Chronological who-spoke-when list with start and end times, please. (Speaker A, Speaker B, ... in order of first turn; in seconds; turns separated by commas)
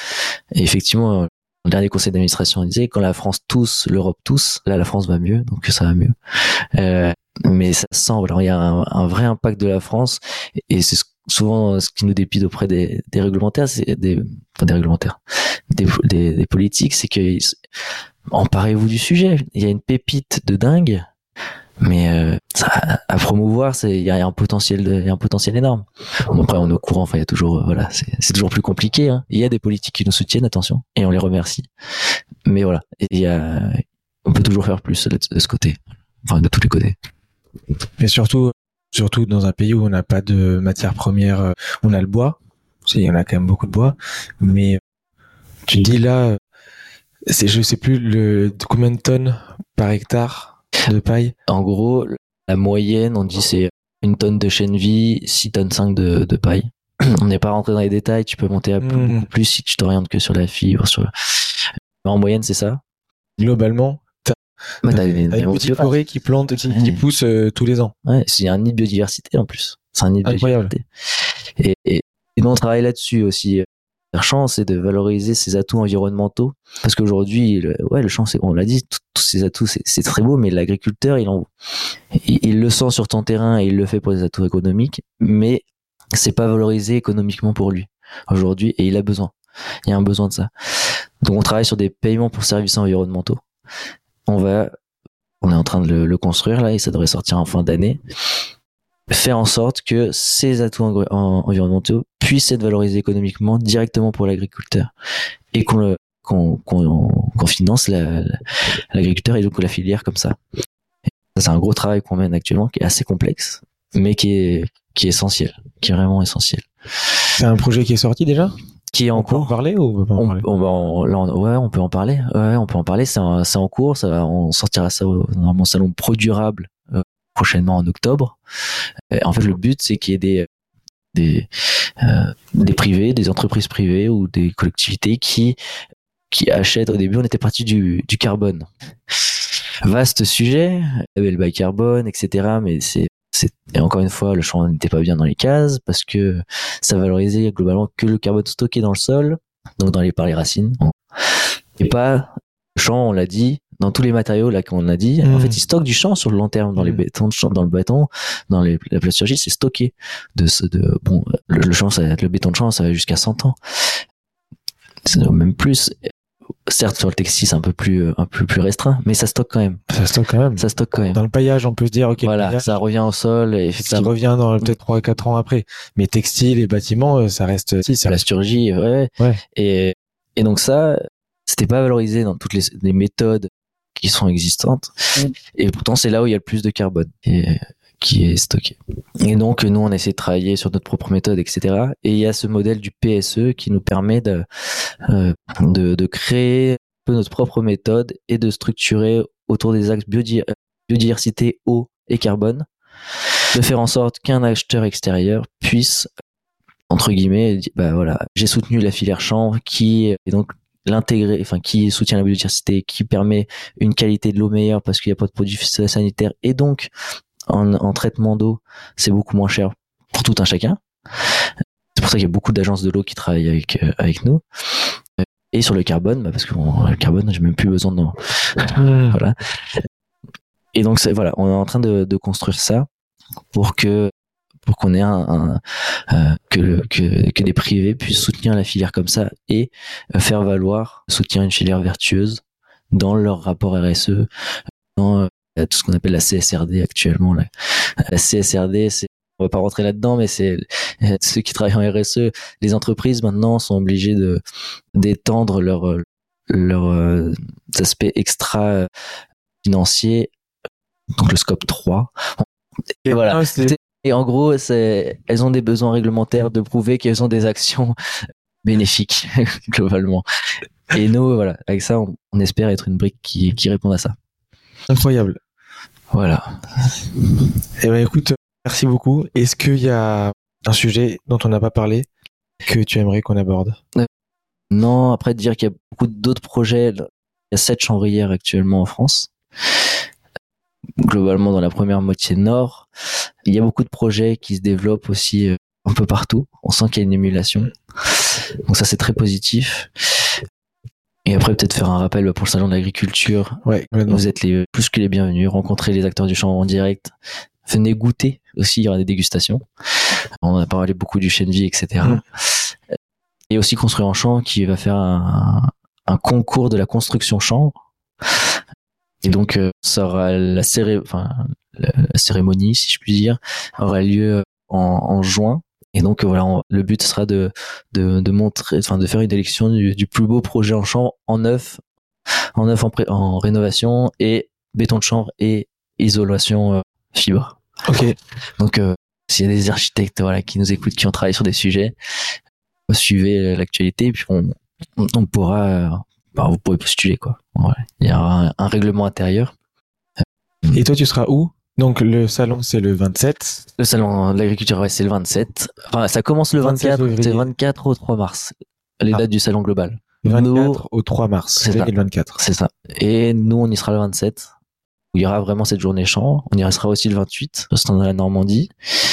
Speaker A: 0.5-6.1, Speaker A: 6.7-15.2, Speaker A: 15.7-17.6, Speaker A: 18.3-21.1, Speaker A: 21.8-31.7, Speaker A: 32.5-37.0, Speaker B: 38.0-44.8, Speaker B: 45.7-46.4, Speaker B: 47.3-51.3, Speaker A: 51.5-62.8, Speaker B: 58.8-59.3, Speaker B: 63.4-64.3, Speaker A: 64.8-65.9, Speaker B: 64.9-67.9, Speaker A: 66.7-67.0, Speaker A: 68.0-70.8, Speaker B: 70.2-70.7, Speaker A: 71.6-81.5, Speaker A: 82.1-85.6, Speaker A: 86.1-89.3, Speaker A: 89.8-90.5, Speaker A: 91.2-93.4, Speaker A: 94.3-94.7, Speaker A: 95.4-98.0, Speaker A: 99.1-104.9, Speaker A: 105.5-110.4, Speaker A: 111.3-116.7, Speaker B: 117.4-118.5, Speaker A: 118.9-119.5, Speaker B: 119.1-120.4, Speaker A: 120.2-128.4, Speaker A: 129.1-130.5, Speaker A: 131.1-131.5, Speaker A: 132.0-135.6, Speaker A: 136.3-138.7, Speaker A: 139.8-164.0, Speaker B: 155.2-155.6, Speaker B: 156.8-157.0, Speaker A: 165.1-166.1, Speaker A: 166.7-169.8, Speaker B: 169.9-170.6, Speaker A: 170.6-171.2, Speaker B: 171.1-172.7, Speaker A: 172.2-174.1, Speaker B: 173.8-178.2, Speaker A: 178.1-184.9, Speaker A: 185.5-194.4, Speaker A: 195.0-202.7, Speaker A: 203.5-206.1, Speaker A: 206.9-216.9, Speaker A: 217.5-220.8, Speaker A: 221.9-224.4, Speaker A: 225.2-229.8, Speaker B: 228.7-229.2, Speaker A: 230.7-232.9, Speaker A: 233.5-234.1, Speaker A: 234.7-242.4, Speaker A: 242.9-244.3, Speaker A: 244.9-247.5, Speaker A: 248.0-254.4, Speaker A: 254.9-258.9, Speaker A: 259.6-260.3, Speaker A: 261.2-262.4, Speaker B: 263.1-263.8, Speaker A: 263.1-267.9, Speaker A: 268.6-270.2, Speaker A: 270.9-274.1, Speaker B: 274.9-275.4, Speaker A: 276.1-277.0, Speaker B: 277.8-282.1, Speaker B: 282.6-283.8, Speaker A: 284.7-289.3, Speaker A: 291.0-292.9, Speaker A: 293.4-299.9, Speaker A: 301.2-307.1, Speaker B: 303.6-304.2, Speaker A: 307.6-309.6, Speaker A: 310.4-312.6, Speaker A: 313.5-317.8, Speaker A: 319.2-331.8, Speaker A: 332.6-337.6, Speaker B: 337.9-338.1, Speaker A: 338.6-341.9, Speaker A: 342.9-349.5, Speaker B: 350.7-353.6, Speaker A: 353.8-360.8, Speaker B: 356.6-357.5, Speaker B: 360.2-362.4, Speaker A: 361.6-364.5, Speaker A: 365.1-368.7